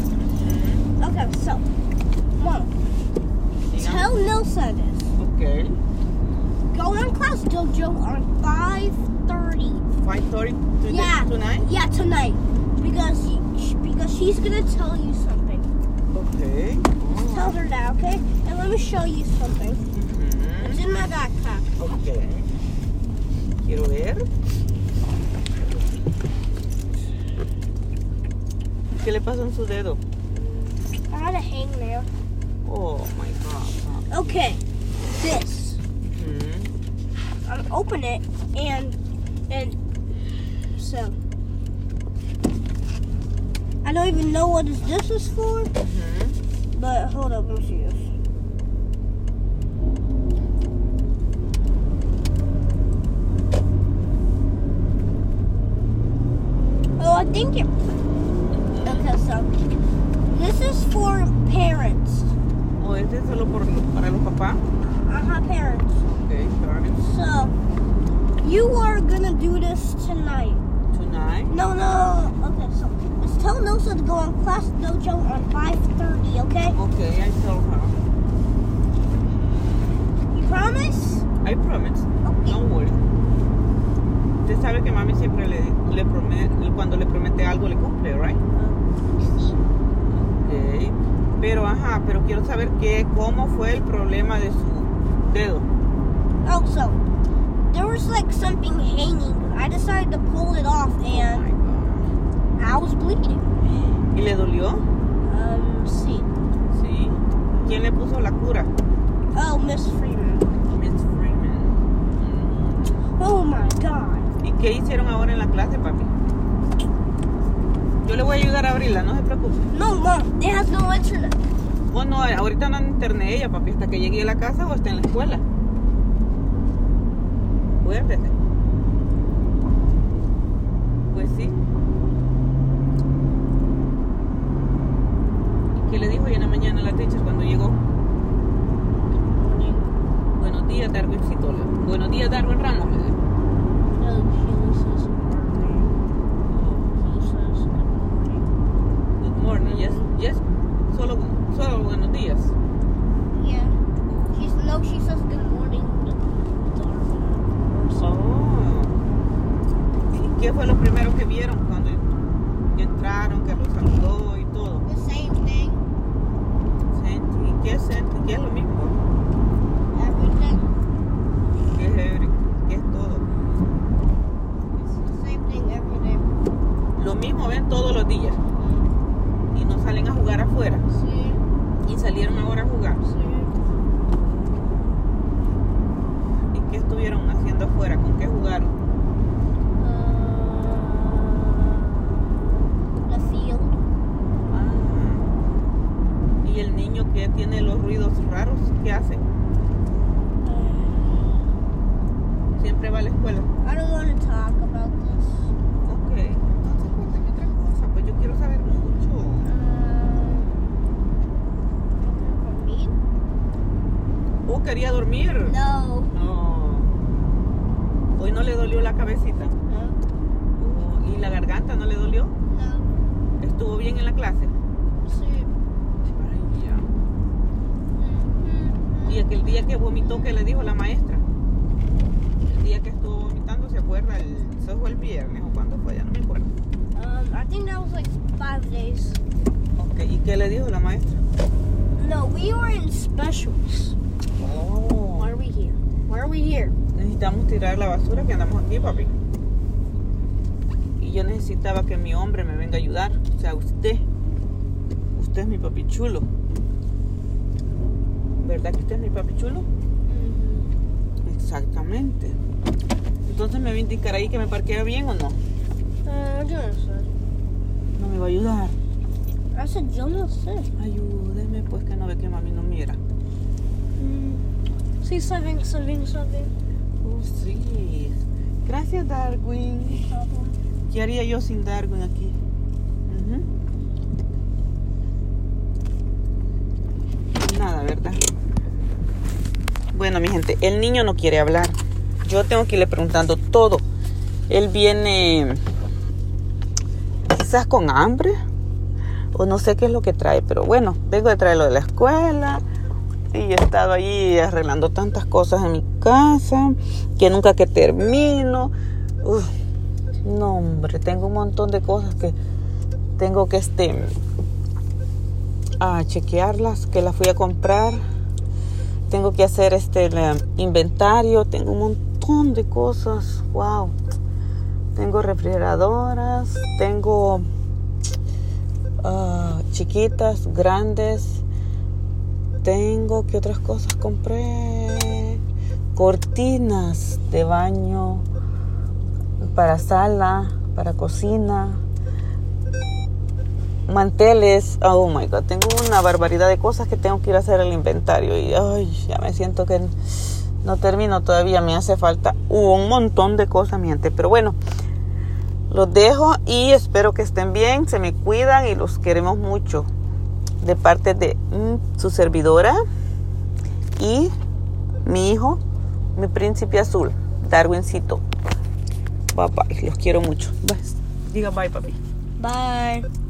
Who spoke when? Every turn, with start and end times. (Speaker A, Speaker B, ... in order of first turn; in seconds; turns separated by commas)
Speaker A: 0.2-0.9, Speaker B: 1.0-1.7, Speaker B: 2.4-2.7, Speaker A: 3.7-4.2, Speaker B: 3.8-5.1, Speaker A: 5.2-5.8, Speaker B: 6.7-9.9, Speaker A: 10.0-11.7, Speaker B: 10.8-15.7, Speaker A: 16.1-17.6, Speaker B: 17.3-19.9, Speaker A: 19.9-20.8, Speaker B: 20.6-21.7, Speaker A: 21.8-22.5, Speaker A: 23.6-24.3, Speaker A: 28.9-30.0, Speaker B: 30.3-32.1, Speaker A: 32.6-34.3, Speaker B: 34.1-35.8, Speaker A: 36.0-36.7, Speaker B: 37.5-39.0, Speaker B: 39.5-39.8, Speaker B: 40.7-41.2, Speaker B: 43.8-45.7, Speaker A: 45.8-46.4, Speaker B: 46.7-48.1, Speaker B: 57.0-57.8, Speaker A: 58.5-59.1, Speaker B: 58.8-59.6, Speaker B: 60.3-62.3, Speaker A: 62.8-64.6, Speaker B: 64.9-66.0, Speaker A: 66.1-67.2, Speaker B: 67.0-67.5, Speaker B: 68.4-70.6, Speaker A: 70.9-71.6, Speaker B: 71.5-76.8, Speaker A: 76.7-78.0, Speaker B: 80.3-81.3, Speaker A: 81.4-83.0, Speaker B: 82.2-82.6, Speaker A: 84.4-88.4, Speaker B: 88.5-89.6, Speaker A: 90.1-95.7, Speaker B: 96.4-97.0, Speaker B: 97.7-101.5, Speaker A: 101.1-102.1, Speaker B: 102.6-103.5, Speaker A: 104.1-104.8, Speaker B: 105.2-106.3, Speaker A: 106.7-108.7, Speaker B: 109.3-110.5, Speaker A: 110.6-113.0, Speaker B: 113.2-114.3, Speaker A: 114.4-116.1, Speaker A: 118.0-119.7, Speaker B: 119.7-121.4, Speaker A: 121.9-125.4, Speaker A: 127.8-128.3, Speaker A: 131.1-131.6, Speaker A: 135.7-137.8, Speaker B: 139.3-140.0, Speaker A: 140.3-143.2, Speaker B: 143.9-146.0, Speaker A: 146.5-147.1, Speaker B: 147.0-148.5, Speaker A: 149.2-152.6, Speaker B: 149.5-150.1, Speaker B: 153.3-153.8, Speaker A: 154.1-154.4, Speaker B: 154.3-158.2, Speaker A: 158.0-159.0, Speaker A: 160.1-162.1, Speaker A: 162.7-164.8, Speaker B: 164.8-165.8, Speaker A: 166.9-169.0, Speaker B: 169.9-170.7, Speaker A: 171.7-173.3, Speaker B: 174.9-176.3, Speaker A: 177.0-178.4, Speaker B: 178.5-178.9, Speaker A: 179.5-180.8, Speaker B: 180.9-181.4, Speaker A: 181.8-183.0, Speaker B: 183.0-183.5, Speaker A: 186.5-188.8, Speaker B: 189.8-193.9, Speaker A: 194.5-195.3, Speaker A: 196.4-199.2, Speaker B: 200.4-201.3, Speaker A: 202.6-203.5, Speaker B: 203.6-205.5, Speaker A: 205.8-209.5, Speaker B: 209.4-210.8, Speaker B: 212.0-213.0, Speaker A: 214.5-215.6, Speaker B: 215.4-216.1, Speaker A: 216.1-216.9, Speaker A: 218.2-219.6, Speaker B: 219.7-220.0, Speaker A: 220.6-222.3, Speaker B: 222.5-222.9, Speaker A: 223.4-224.5, Speaker B: 225.1-225.5, Speaker A: 226.1-226.9, Speaker B: 228.0-229.4, Speaker A: 229.1-231.2, Speaker A: 232.4-236.5, Speaker B: 236.9-239.2, Speaker A: 239.8-241.2, Speaker B: 242.0-244.0, Speaker A: 244.4-245.3, Speaker B: 245.2-246.8, Speaker A: 246.9-249.1, Speaker A: 251.0-254.1, Speaker A: 255.2-256.3, Speaker A: 258.4-259.7, Speaker B: 260.1-260.7, Speaker A: 261.2-262.4, Speaker A: 263.3-265.4, Speaker B: 266.1-267.1, Speaker A: 267.9-268.8, Speaker B: 269.5-270.7, Speaker A: 270.8-273.0, Speaker B: 274.0-274.4, Speaker B: 275.0-276.5, Speaker A: 277.0-280.1, Speaker B: 279.9-280.6, Speaker A: 280.9-282.4, Speaker A: 283.1-283.5, Speaker A: 287.3-288.2, Speaker A: 289.9-293.9, Speaker A: 294.5-295.6, Speaker A: 297.3-298.4, Speaker A: 299.3-302.6, Speaker A: 303.3-309.5, Speaker A: 310.2-312.4, Speaker A: 313.2-314.2, Speaker A: 315.8-318.0, Speaker A: 319.1-324.0, Speaker A: 324.9-327.5, Speaker A: 329.0-331.4, Speaker A: 332.6-335.4, Speaker A: 335.9-338.3, Speaker A: 339.4-341.8, Speaker A: 343.9-349.9, Speaker A: 350.6-354.6, Speaker A: 355.7-359.9, Speaker A: 360.6-362.8, Speaker A: 364.0-364.3, Speaker A: 365.1-365.6, Speaker A: 366.2-368.2, Speaker A: 369.3-372.0, Speaker B: 372.4-373.1